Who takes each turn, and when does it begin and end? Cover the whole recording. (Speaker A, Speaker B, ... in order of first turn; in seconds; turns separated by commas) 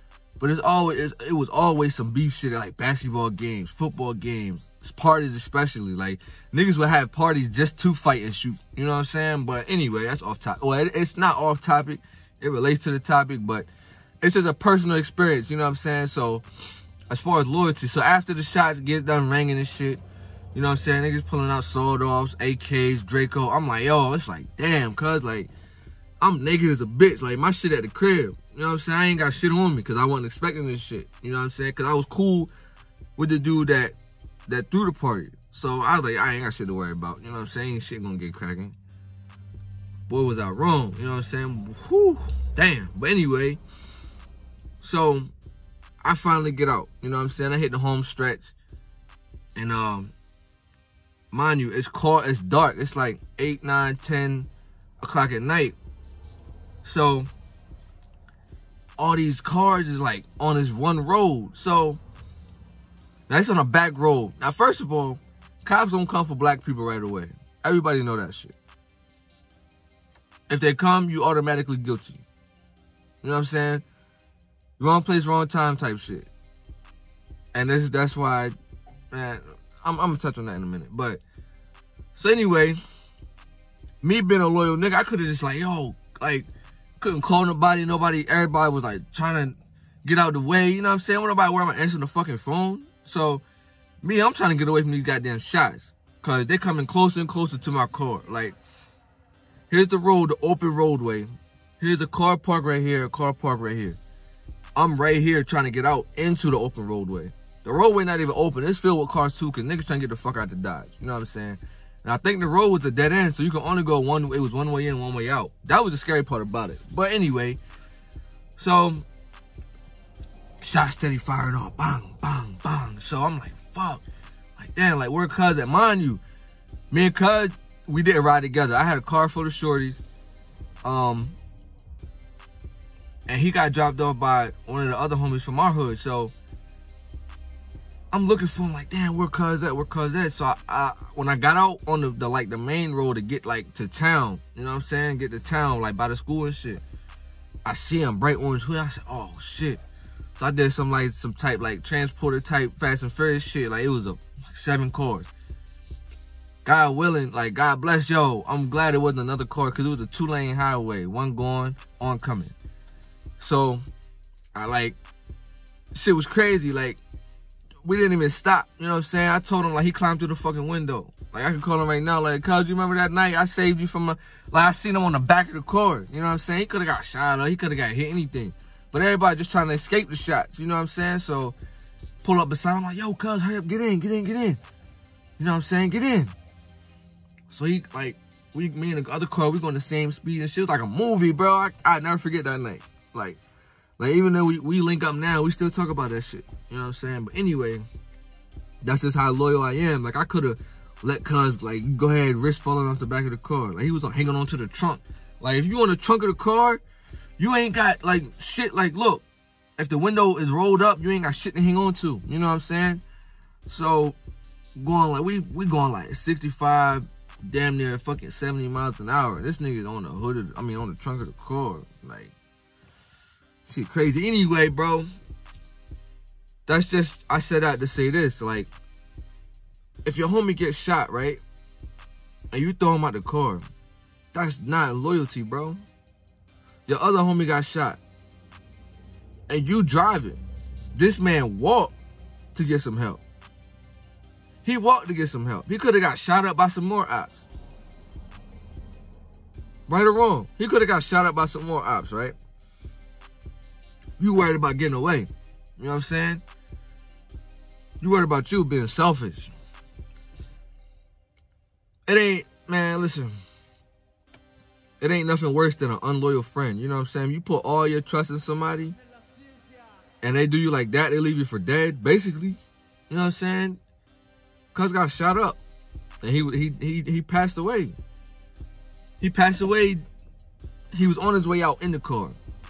Speaker A: 0.4-13.7, Speaker A: 14.2-16.4, Speaker A: 17.1-20.0, Speaker A: 20.5-25.5, Speaker A: 26.2-32.5, Speaker A: 33.2-34.0, Speaker A: 34.5-38.8, Speaker A: 40.1-43.6, Speaker A: 44.8-45.3, Speaker A: 46.0-48.5, Speaker A: 49.6-50.1, Speaker A: 51.3-54.5, Speaker A: 55.0-55.8, Speaker A: 56.8-57.3, Speaker A: 59.0-62.0, Speaker A: 63.3-68.6, Speaker A: 70.5-72.2, Speaker A: 73.2-73.8, Speaker A: 74.8-76.3, Speaker A: 77.5-78.6, Speaker A: 79.1-81.2, Speaker A: 82.2-82.8, Speaker A: 84.0-93.4, Speaker A: 94.0-98.6, Speaker A: 99.7-104.0, Speaker A: 104.8-117.6, Speaker A: 118.6-119.1, Speaker A: 120.6-124.0, Speaker A: 124.6-126.2, Speaker A: 126.9-130.0, Speaker A: 130.8-131.4, Speaker A: 133.3-136.3, Speaker A: 138.1-146.8, Speaker A: 147.7-149.8, Speaker A: 150.3-155.3, Speaker A: 156.7-162.6, Speaker A: 163.4-163.8, Speaker A: 164.6-165.0, Speaker A: 165.9-167.0, Speaker A: 167.8-181.6, Speaker A: 182.2-184.6, Speaker A: 185.4-186.3, Speaker A: 187.5-193.4, Speaker A: 194.0-197.8, Speaker A: 198.8-206.8, Speaker A: 207.4-209.2, Speaker A: 209.8-213.0, Speaker A: 213.7-214.2, Speaker A: 214.8-222.3, Speaker A: 223.6-225.1, Speaker A: 226.7-228.7, Speaker A: 230.1-231.4, Speaker A: 232.5-233.6, Speaker A: 234.3-235.8, Speaker A: 236.9-238.0, Speaker A: 239.5-240.4, Speaker A: 240.9-241.9, Speaker A: 242.5-243.2, Speaker A: 244.6-247.3, Speaker A: 249.9-252.4, Speaker A: 254.2-256.4, Speaker A: 258.0-259.5, Speaker A: 262.1-263.3, Speaker A: 265.0-269.0, Speaker A: 270.2-273.8, Speaker A: 274.7-275.6, Speaker A: 276.2-278.0, Speaker A: 279.2-280.0, Speaker A: 280.9-282.4